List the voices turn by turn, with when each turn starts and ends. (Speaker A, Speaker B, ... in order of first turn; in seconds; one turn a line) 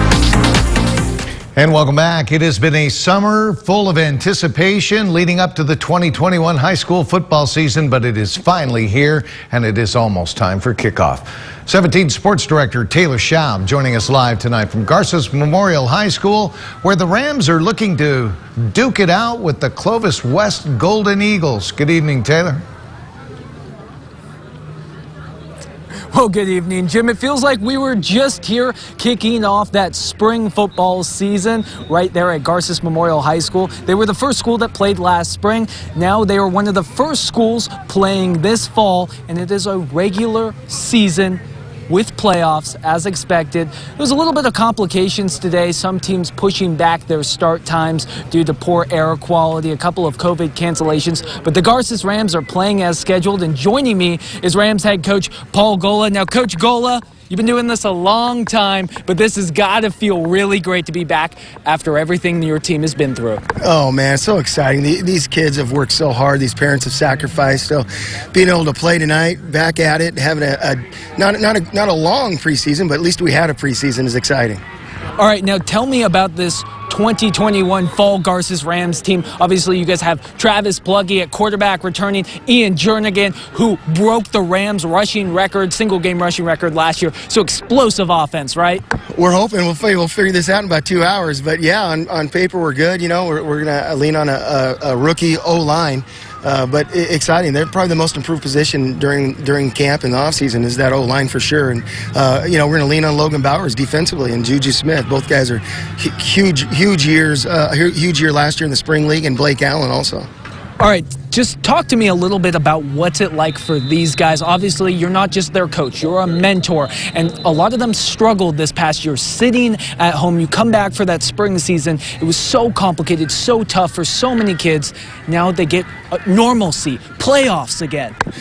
Speaker A: 1.6-22.6
Speaker B: 26.1-63.4
Speaker C: 63.6-74.6
Speaker B: 75.2-88.8
Speaker C: 89.1-110.3
Speaker B: 110.8-128.2